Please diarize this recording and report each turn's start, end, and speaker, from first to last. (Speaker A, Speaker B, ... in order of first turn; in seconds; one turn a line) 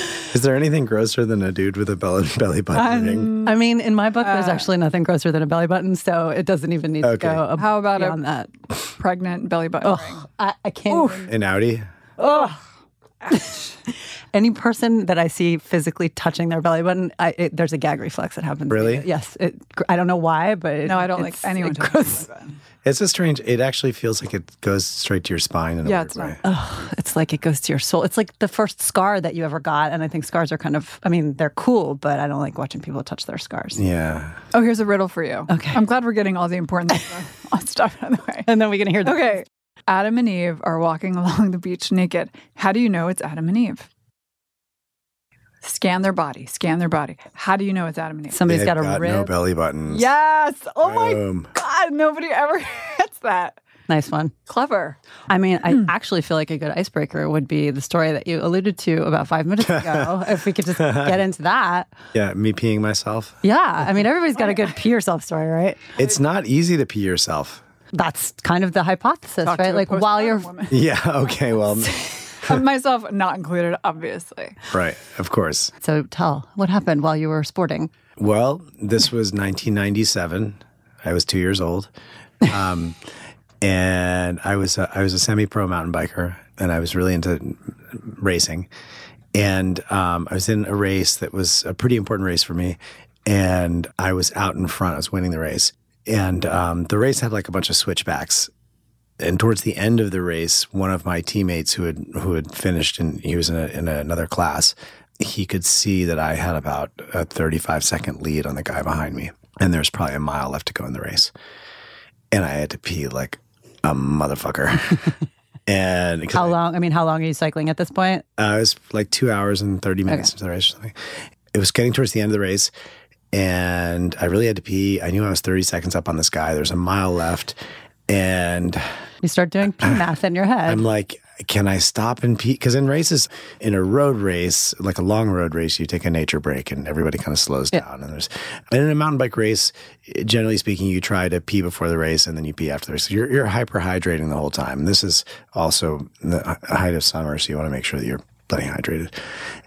Speaker A: 0.2-3.3
Speaker B: 2.7-3.6
Speaker C: 3.4-8.5
Speaker B: 4.2-4.7
Speaker A: 7.0-7.4
Speaker B: 7.6-8.3
Speaker B: 9.0-10.3
Speaker C: 9.8-11.3
Speaker B: 10.9-11.3
Speaker A: 11.3-11.9
Speaker C: 12.2-12.6
Speaker B: 12.2-12.6
Speaker B: 13.2-13.7
Speaker C: 13.3-13.7
Speaker C: 14.3-22.3
Speaker A: 18.7-19.1
Speaker B: 20.9-22.6
Speaker A: 22.8-26.4
Speaker B: 25.9-26.4
Speaker C: 26.4-33.8
Speaker A: 33.8-34.4
Speaker B: 34.5-38.5
Speaker C: 35.5-35.8
Speaker C: 38.5-39.4
Speaker B: 39.0-43.9
Speaker B: 45.6-48.5
Speaker C: 48.3-49.3
Speaker A: 48.5-50.1
Speaker B: 49.9-53.6
Speaker A: 50.8-51.5
Speaker C: 53.9-54.3
Speaker B: 54.5-55.0
Speaker C: 55.3-61.9
Speaker A: 59.7-61.2
Speaker A: 62.1-63.4
Speaker C: 63.4-65.8
Speaker A: 66.0-67.6
Speaker C: 67.9-70.5
Speaker B: 69.5-70.8
Speaker A: 70.7-72.6
Speaker B: 71.8-74.6
Speaker A: 74.7-75.7
Speaker C: 75.8-77.9
Speaker A: 78.2-81.9
Speaker A: 82.4-83.0
Speaker A: 83.6-88.7
Speaker A: 89.3-98.5
Speaker A: 99.2-111.3
Speaker A: 112.3-115.1
Speaker A: 115.7-116.6
Speaker C: 116.3-118.3
Speaker A: 118.4-122.7
Speaker A: 123.3-127.6
Speaker A: 128.1-128.9
Speaker C: 129.2-130.8
Speaker A: 130.7-149.1